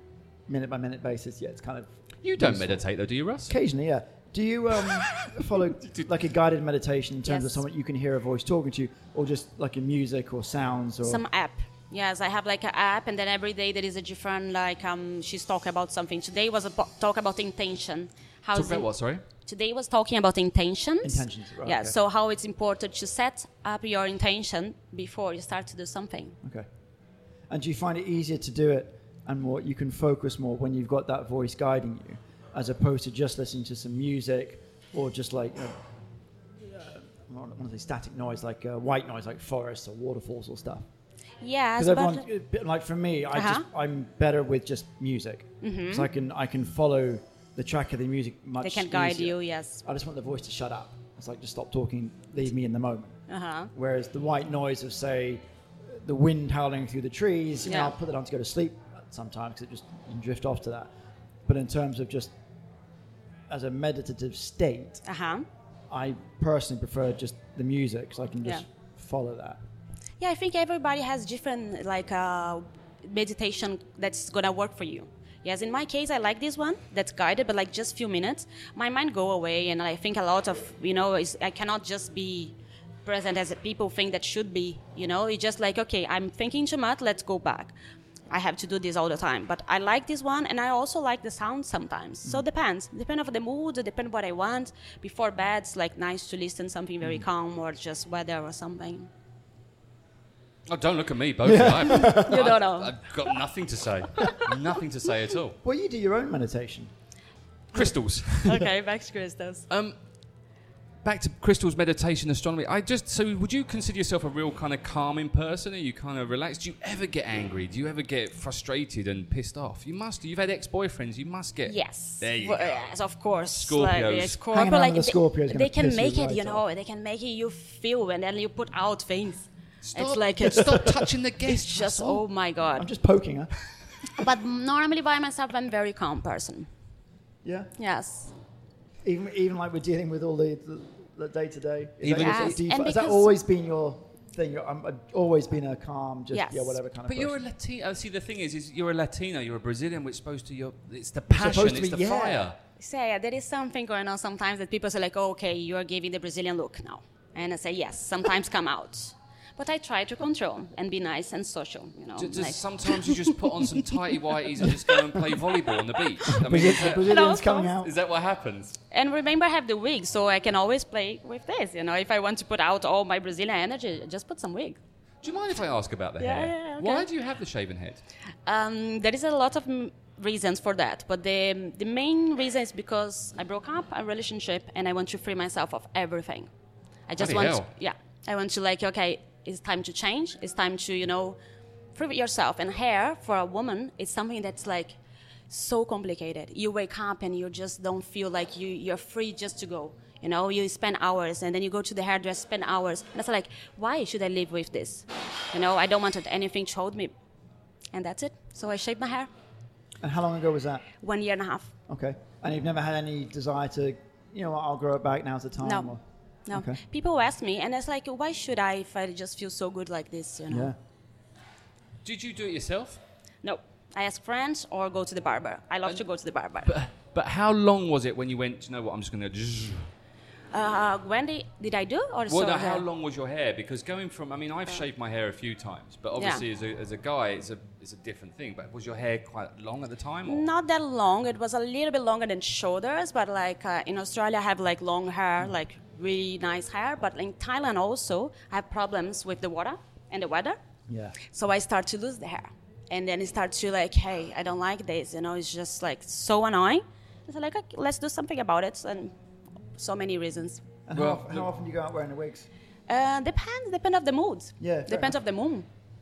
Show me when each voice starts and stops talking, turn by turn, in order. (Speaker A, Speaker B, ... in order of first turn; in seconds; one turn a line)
Speaker A: 0.5-2.8
Speaker B: 2.2-3.5
Speaker A: 3.5-11.2
Speaker B: 5.1-6.1
Speaker C: 7.2-7.6
Speaker C: 11.0-26.4
Speaker B: 18.5-19.2
Speaker A: 21.0-21.9
Speaker A: 27.5-35.8
Speaker A: 36.6-40.8
Speaker C: 41.4-42.2
Speaker A: 41.8-53.2
Speaker C: 43.3-43.6
Speaker C: 45.6-46.1
Speaker C: 48.6-49.8
Speaker C: 53.3-53.7
Speaker A: 53.7-60.9
Speaker C: 57.7-57.9
Speaker A: 61.5-62.3
Speaker A: 63.5-65.0
Speaker C: 65.0-65.5
Speaker A: 65.9-69.6
Speaker C: 70.2-82.5
Speaker C: 83.1-87.8
Speaker C: 88.3-99.1
Speaker B: 100.7-105.6
Speaker A: 101.4-102.5
Speaker C: 102.1-103.0
Speaker A: 105.6-106.9
Speaker B: 107.7-108.6
Speaker C: 108.4-109.7
Speaker B: 109.7-110.0
Speaker B: 111.0-122.8
Speaker C: 121.7-132.9
Speaker B: 123.5-124.4
Speaker A: 124.5-126.6
Speaker B: 129.8-132.2
Speaker A: 132.8-133.5
Speaker C: 134.1-136.7
Speaker A: 137.4-137.7
Speaker C: 137.8-138.3
Speaker A: 139.0-147.4
Speaker B: 142.0-142.6
Speaker C: 142.2-143.3
Speaker C: 146.3-146.8
Speaker B: 147.1-152.6
Speaker A: 151.3-152.5
Speaker C: 152.8-163.9
Speaker B: 162.2-167.2
Speaker A: 166.3-167.9
Speaker C: 166.7-167.8
Speaker B: 167.8-168.8
Speaker C: 168.9-174.8
Speaker B: 175.2-178.0
Speaker C: 176.2-177.1
Speaker C: 178.5-186.5
Speaker C: 187.1-191.4
Speaker B: 187.2-187.7
Speaker C: 191.9-195.0
Speaker C: 195.5-207.1
Speaker C: 207.9-209.3
Speaker A: 210.0-210.9
Speaker C: 211.0-211.7
Speaker A: 211.9-216.8
Speaker C: 215.6-215.9
Speaker C: 216.5-220.7
Speaker A: 220.5-220.8
Speaker B: 222.0-223.0
Speaker C: 223.4-226.7
Speaker B: 226.6-229.9
Speaker C: 230.5-232.8
Speaker B: 232.3-240.5
Speaker C: 236.2-236.4
Speaker C: 240.2-250.6
Speaker A: 250.9-251.2
Speaker C: 251.2-259.1
Speaker C: 259.8-260.6
Speaker A: 260.9-262.5
Speaker B: 260.9-261.5
Speaker C: 262.9-265.7
Speaker A: 264.6-265.2